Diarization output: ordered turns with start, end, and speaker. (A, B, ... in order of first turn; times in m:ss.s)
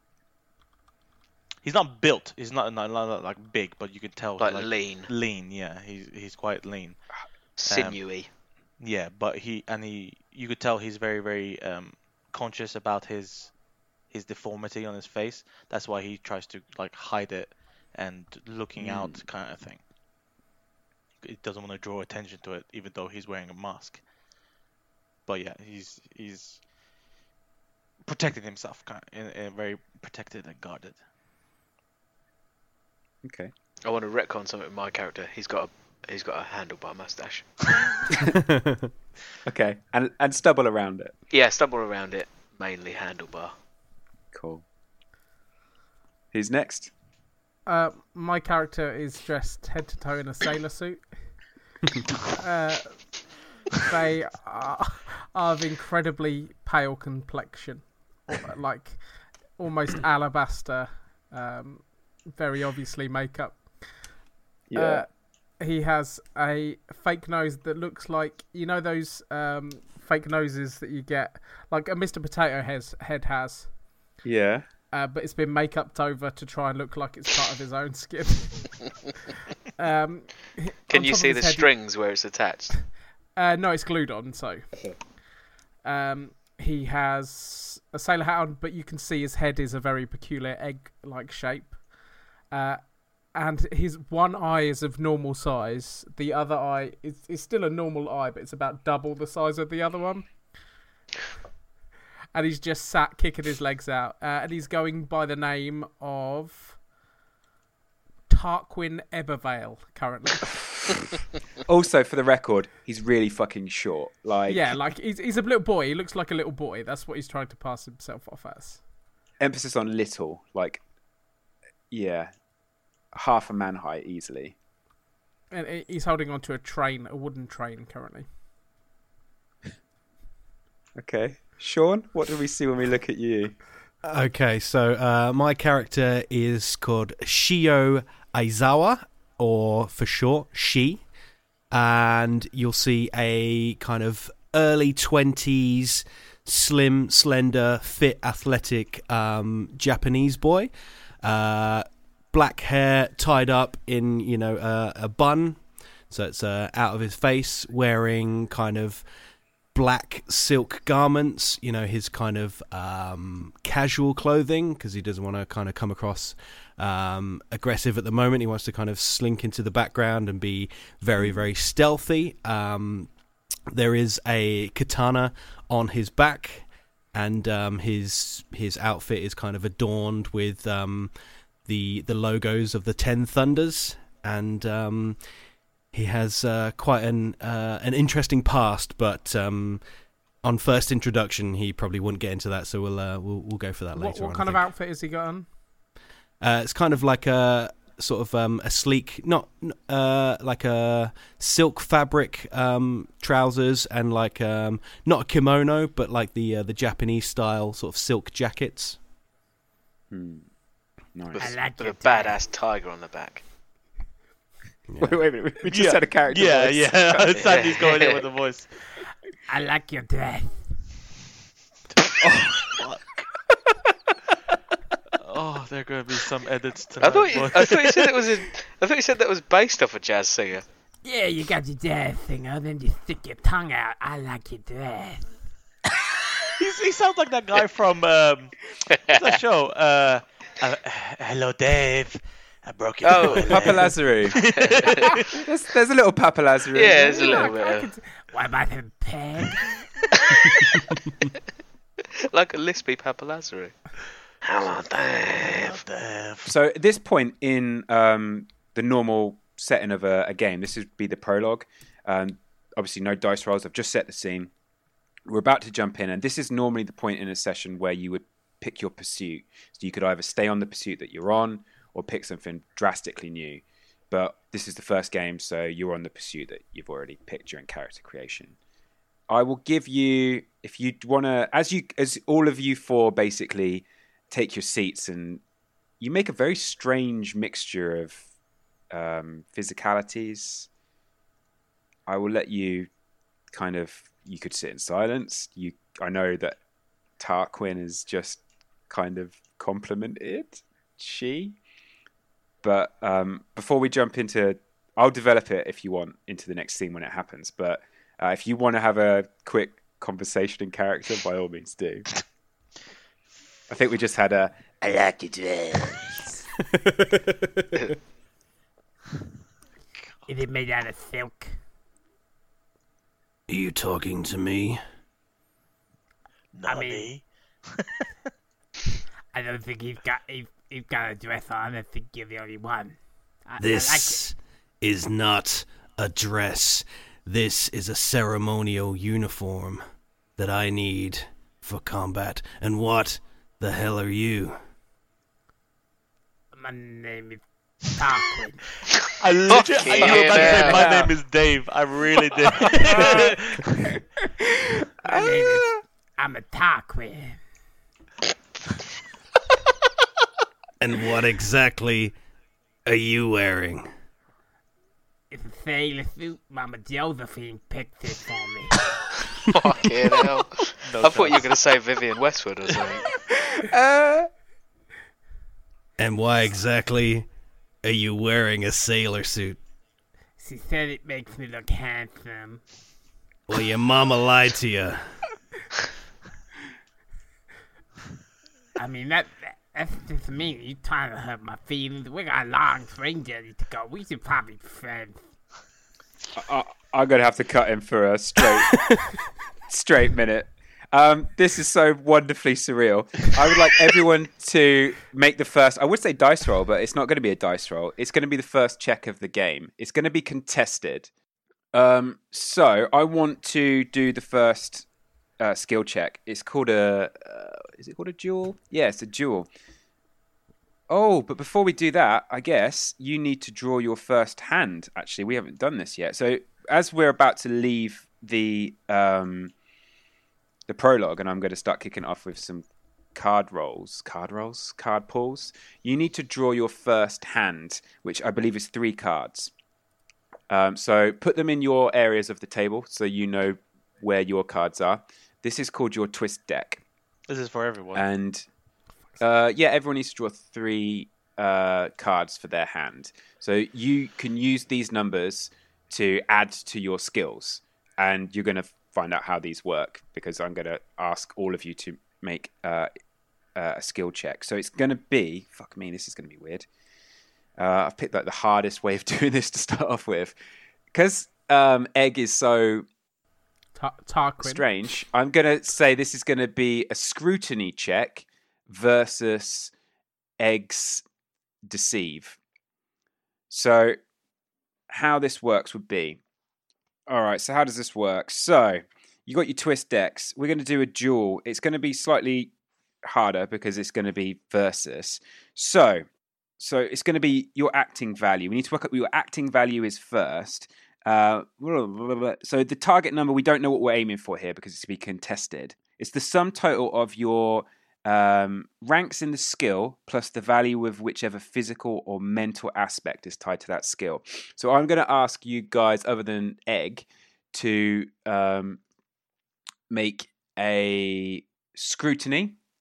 0:01.6-0:07.0 A
0:04.4-0:05.1 B
0:07.6-0:08.3 B
0:07.6-0:08.0 A
0:08.8-0:13.5 A
0:14.1-0:19.8 A
0:18.8-0:19.2 C
0:21.2-0:24.0 A
0:25.3-0:26.6 A
0:28.0-0:31.0 A
0:33.2-0:33.5 C
0:33.8-0:37.5 B
0:39.4-0:41.1 C
0:41.3-0:43.5 B
0:44.3-0:44.6 C
0:46.3-0:46.9 C
0:47.6-0:51.4 D
0:52.4-0:53.2 D
0:53.8-1:04.1 D
1:04.7-1:05.0 C
1:04.7-1:05.1 D
1:05.6-1:13.7 D
1:14.2-1:14.6 C
1:14.9-1:18.8 D
1:19.8-1:21.7 D
1:20.9-1:22.8 B
1:23.4-1:24.7 D
1:25.8-1:31.9 D
1:32.5-1:40.4 D
1:42.3-1:46.8 D
1:48.3-1:50.5 D
1:51.6-1:54.7 C
1:54.5-1:58.8 D
1:59.4-2:00.8 C
2:01.9-2:02.3 C
2:03.1-2:04.5 C
2:05.5-2:08.3 D
2:11.0-2:13.6 C
2:14.0-2:21.1 E
2:21.7-2:39.1 E
2:39.7-2:53.2 E
2:51.2-2:51.5 C
2:53.7-3:05.3 E
3:05.9-3:09.9 E
3:10.4-3:14.7 E
3:13.9-3:15.5 D
3:16.4-3:29.0 E
3:30.1-3:30.5 C
3:31.1-3:31.5 C
3:31.4-3:33.4 B
3:31.4-3:32.4 F
3:34.9-3:35.2 E
3:35.0-3:37.8 C
3:35.6-3:38.7 A
3:37.4-3:38.2 B
3:39.5-3:40.7 F
3:45.2-3:48.4 A
3:47.0-3:50.6 B
3:51.0-3:55.3 F
3:56.6-3:58.6 A
3:58.9-3:59.3 B
3:59.1-4:05.3 A
4:03.0-4:05.1 B
4:03.4-4:04.4 C
4:05.4-4:07.4 C
4:06.7-4:07.9 B
4:06.9-4:09.8 F
4:12.3-4:13.7 B
4:14.4-4:15.8 B
4:15.4-4:16.5 A
4:16.4-4:24.5 C
4:25.3-4:38.6 C
4:39.3-4:45.4 C
4:46.0-4:48.3 C
4:48.9-4:50.7 C
4:52.1-4:52.9 C
4:53.5-4:56.6 C
4:57.2-5:01.6 C
5:02.6-5:12.1 C
5:13.7-5:14.8 C
5:16.9-5:17.6 E
5:20.3-5:21.6 F
5:23.5-5:24.8 E
5:26.5-5:27.8 A
5:26.6-5:27.1 F
5:29.3-5:34.2 F
5:33.6-5:39.8 E
5:40.4-5:44.6 E
5:46.5-5:48.6 F
5:49.2-5:53.7 A
5:49.5-5:51.0 B
5:49.8-5:51.1 F
5:52.6-5:53.3 F
5:55.0-5:57.4 F
6:00.8-6:02.1 E
6:02.8-6:03.9 E
6:05.3-6:08.8 F
6:09.5-6:13.1 B
6:10.8-6:11.5 A
6:13.7-6:14.3 C
6:16.0-6:17.3 E
6:17.8-6:19.6 E
6:20.4-6:22.6 F
6:23.5-6:25.0 E
6:28.8-6:35.3 F
6:36.4-6:38.8 C
6:39.7-6:51.1 C
6:51.7-6:54.9 C
6:55.4-6:59.5 C
7:00.9-7:09.5 C
7:10.7-7:19.5 C
7:20.5-7:26.8 C
7:27.3-7:28.0 A
7:27.9-7:28.4 C
7:29.2-7:42.9 C
7:43.5-7:46.7 C
7:47.6-7:50.4 C
7:50.9-7:52.8 C
7:53.8-7:54.6 D
7:54.4-7:59.7 C
8:00.4-8:01.0 C
8:01.7-8:02.4 C
8:03.5-8:04.0 C
8:04.9-8:06.2 C
8:07.1-8:12.5 C
8:13.0-8:16.0 C
8:16.6-8:38.8 C
8:39.9-8:42.6 C